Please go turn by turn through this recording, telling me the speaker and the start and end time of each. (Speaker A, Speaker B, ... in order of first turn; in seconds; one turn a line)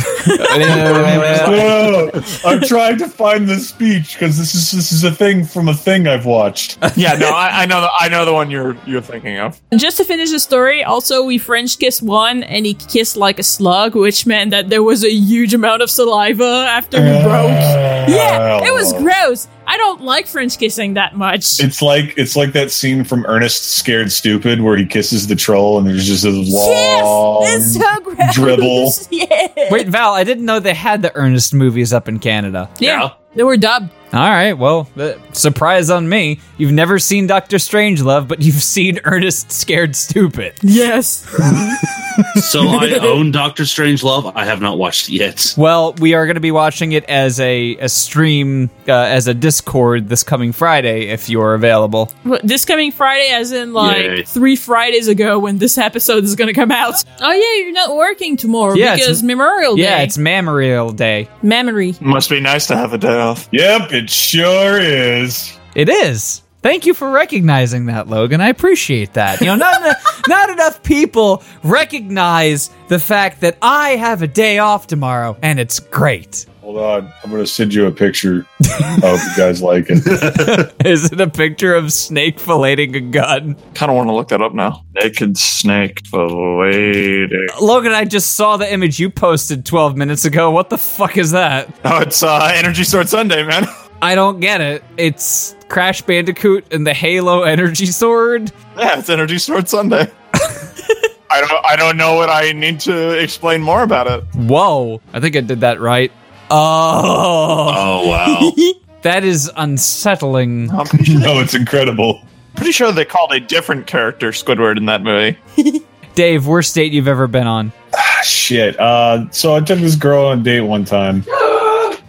Speaker A: 0.2-1.0
Speaker B: 0.3-1.8
Speaker C: 0.4-2.0
Speaker D: 1.1-6.8
Speaker C: 7.0-9.6
Speaker A: 9.7-21.7
Speaker D: 16.9-19.1
Speaker D: 21.6-29.0
Speaker A: 26.5-29.9
Speaker B: 29.7-32.8
Speaker A: 32.8-33.9
Speaker E: 32.8-33.1
Speaker B: 34.1-40.6
Speaker A: 40.6-41.8
Speaker E: 42.3-45.5
Speaker B: 45.6-52.1
Speaker A: 52.2-60.1
Speaker E: 53.8-54.3
Speaker B: 58.7-59.2
Speaker B: 59.7-61.3
Speaker A: 61.4-62.0
Speaker C: 62.0-63.5
Speaker D: 63.5-65.5
Speaker B: 65.8-76.5
Speaker D: 76.6-80.7
Speaker B: 78.8-79.0
Speaker B: 80.1-83.6
Speaker C: 83.7-87.5
Speaker B: 87.5-91.7
Speaker C: 91.8-93.7
Speaker B: 94.0-98.5
Speaker C: 98.8-100.1
Speaker C: 101.3-104.3
Speaker B: 104.3-108.1
Speaker E: 107.7-108.6
Speaker B: 109.0-110.7
Speaker C: 110.7-111.5
Speaker D: 110.9-112.2
Speaker C: 112.6-115.4
Speaker B: 116.2-117.7
Speaker D: 117.9-121.3